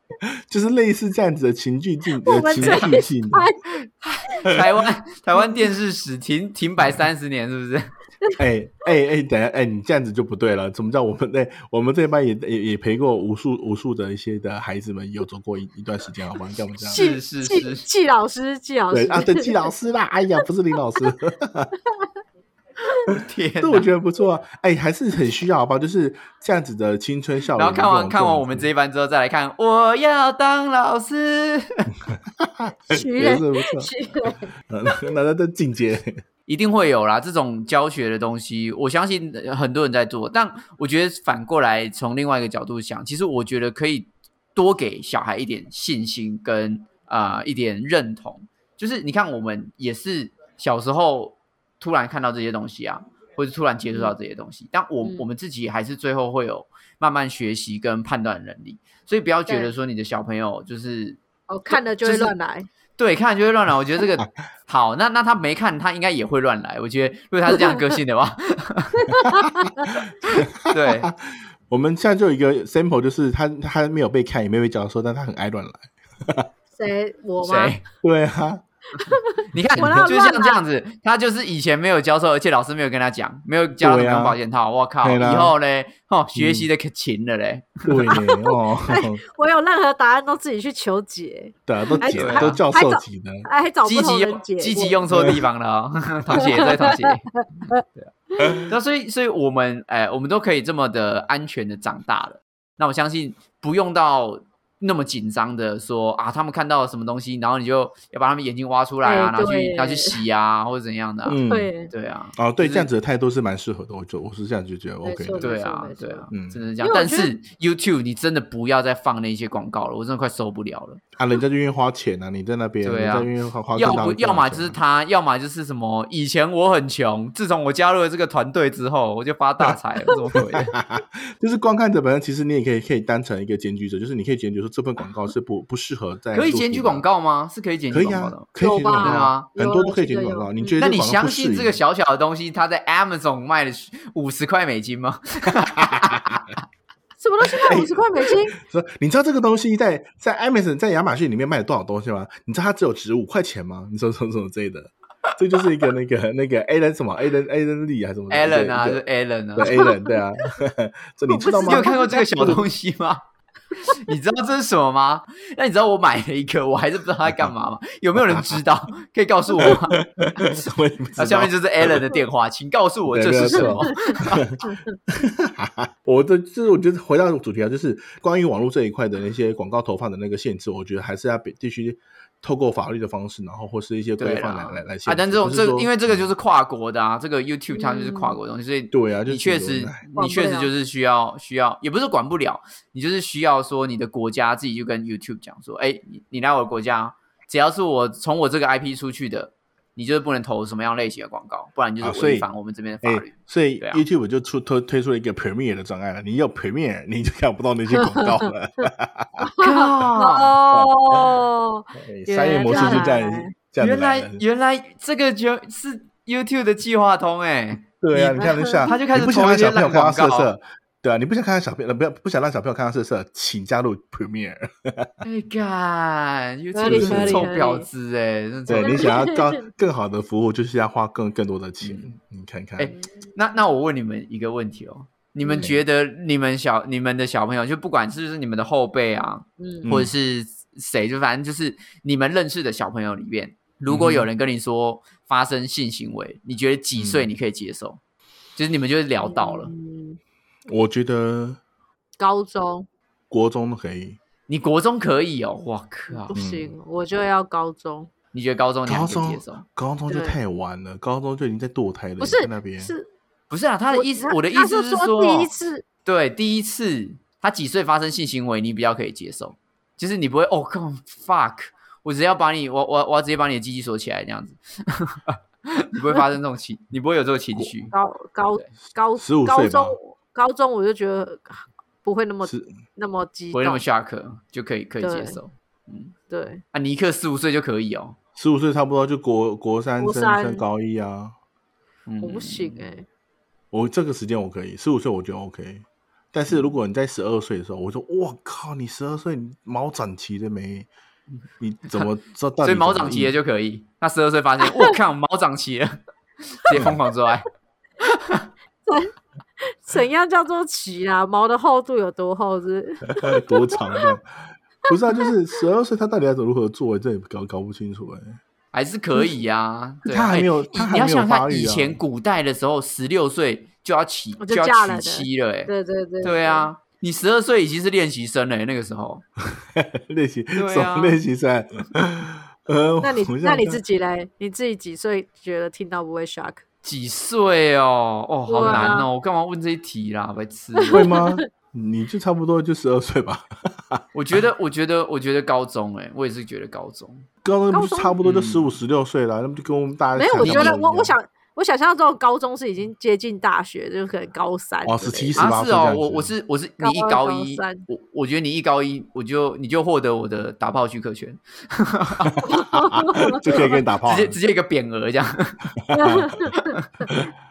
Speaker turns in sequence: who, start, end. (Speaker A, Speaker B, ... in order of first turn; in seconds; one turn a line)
Speaker A: 0.2-3.5
Speaker B: 2.2-3.6
Speaker C: 2.6-2.9
Speaker C: 4.0-7.9
Speaker A: 8.4-17.0
Speaker C: 16.9-17.9
Speaker B: 16.9-19.5
Speaker A: 18.9-21.7
Speaker C: 23.1-23.9
Speaker A: 23.1-28.7
Speaker C: 27.6-31.9
Speaker A: 32.4-33.9
Speaker B: 32.9-35.1
Speaker A: 34.7-36.2
Speaker C: 36.5-62.3
Speaker B: 55.0-55.3
Speaker B: 61.5-62.7
Speaker C: 63.0-69.1
Speaker B: 67.5-67.9
Speaker B: 69.0-70.4
Speaker A: 69.9-71.2
Speaker C: 70.6-71.1
Speaker A: 71.7-76.5
Speaker B: 76.8-77.8
Speaker C: 77.4-77.8
Speaker A: 78.0-78.7
Speaker B: 79.0-80.6
Speaker C: 79.5-88.1
Speaker A: 79.8-80.0
Speaker A: 83.8-84.4
Speaker A: 85.0-85.5
Speaker A: 86.4-86.7
Speaker A: 87.8-89.2
Speaker B: 88.1-95.0
Speaker A: 91.7-93.5
Speaker C: 92.2-92.6
Speaker C: 93.8-97.3
Speaker A: 95.1-95.4
Speaker B: 96.4-97.8
Speaker A: 98.4-98.7
Speaker C: 98.7-111.4
Speaker B: 109.0-110.2
Speaker A: 111.3-111.7
Speaker B: 111.4-111.9
Speaker C: 111.9-112.9
Speaker A: 112.4-115.5
Speaker B: 115.0-116.3
Speaker C: 115.4-121.0
Speaker A: 116.3-116.6
Speaker B: 116.8-117.3
Speaker A: 121.2-124.8
Speaker C: 122.8-130.7
Speaker B: 130.1-130.5
Speaker A: 130.4-137.1
Speaker C: 136.3-138.5
Speaker A: 137.9-141.8
Speaker B: 138.6-140.8
Speaker C: 139.0-139.5
Speaker C: 140.8-146.6
Speaker A: 145.5-146.3
Speaker B: 147.2-148.6
Speaker A: 147.6-159.0
Speaker C: 158.3-159.9
Speaker A: 159.6-162.7
Speaker B: 161.3-162.6
Speaker C: 161.5-163.2
Speaker C: 163.8-170.6
Speaker A: 168.2-168.6
Speaker A: 169.6-172.1
Speaker C: 171.2-174.4
Speaker A: 173.1-186.3
Speaker B: 173.5-174.9
Speaker C: 184.2-204.0
Speaker B: 187.7-188.4
Speaker A: 188.9-190.1
Speaker B: 190.2-190.7
Speaker A: 202.0-202.5
Speaker A: 203.0-209.5
Speaker B: 208.0-208.5
Speaker B: 209.4-213.5
Speaker C: 209.6-210.6
Speaker A: 210.7-211.3
Speaker A: 211.9-214.4
Speaker C: 212.7-213.1
Speaker C: 213.8-220.5
Speaker A: 217.9-225.1
Speaker B: 218.4-218.9
Speaker C: 225.2-229.2
Speaker B: 226.7-227.9
Speaker A: 226.8-227.5
Speaker A: 228.7-232.9
Speaker B: 228.7-229.7
Speaker C: 231.8-232.1
Speaker C: 232.8-248.0
Speaker B: 232.8-233.1
Speaker B: 235.4-235.7
Speaker A: 235.5-235.8
Speaker B: 239.6-239.9
Speaker A: 239.8-240.1
Speaker A: 243.9-244.3
Speaker A: 247.0-247.3
Speaker C: 248.6-249.7
Speaker B: 249.2-250.2
Speaker A: 250.7-251.6
Speaker B: 252.2-252.9
Speaker A: 253.3-254.2
Speaker C: 254.5-256.3
Speaker B: 256.1-258.1
Speaker A: 256.3-256.7
Speaker C: 258.3-259.6
Speaker A: 258.9-262.9
Speaker B: 260.1-260.4
Speaker B: 262.2-263.1
Speaker C: 263.5-265.5
Speaker B: 263.9-265.9
Speaker C: 266.1-277.9
Speaker B: 277.9-283.8
Speaker A: 279.2-280.0
Speaker A: 282.4-282.7
Speaker C: 283.5-286.1
Speaker B: 285.0-285.4
Speaker B: 286.3-286.6
Speaker C: 286.7-288.2
Speaker A: 288.4-291.4
Speaker B: 290.0-290.6
Speaker C: 292.1-292.8
Speaker B: 292.2-293.1
Speaker A: 293.7-300.9
Speaker A: 301.6-303.4
Speaker C: 302.6-307.5
Speaker A: 306.7-307.0
Speaker C: 308.0-308.4
Speaker B: 308.9-314.0
Speaker A: 313.2-318.4
Speaker C: 318.7-325.7
Speaker A: 320.1-322.0
Speaker B: 324.4-326.7
Speaker C: 326.2-329.2
Speaker A: 329.5-333.8
Speaker C: 330.6-331.2
Speaker B: 333.0-336.6
Speaker C: 336.8-341.1
Speaker B: 338.5-339.1
Speaker A: 338.6-339.0
Speaker B: 340.8-341.4
Speaker A: 340.9-344.1
Speaker C: 344.1-347.3
Speaker A: 347.4-351.1
Speaker B: 347.7-348.1
Speaker C: 348.2-348.8
Speaker B: 350.1-355.4
Speaker C: 350.4-350.7
Speaker A: 354.8-356.3
Speaker C: 355.4-362.5
Speaker B: 356.8-357.9
Speaker B: 362.4-363.8
Speaker A: 363.1-364.4
Speaker C: 363.3-365.7
Speaker A: 365.8-366.5
Speaker B: 365.9-366.8
Speaker C: 366.6-367.1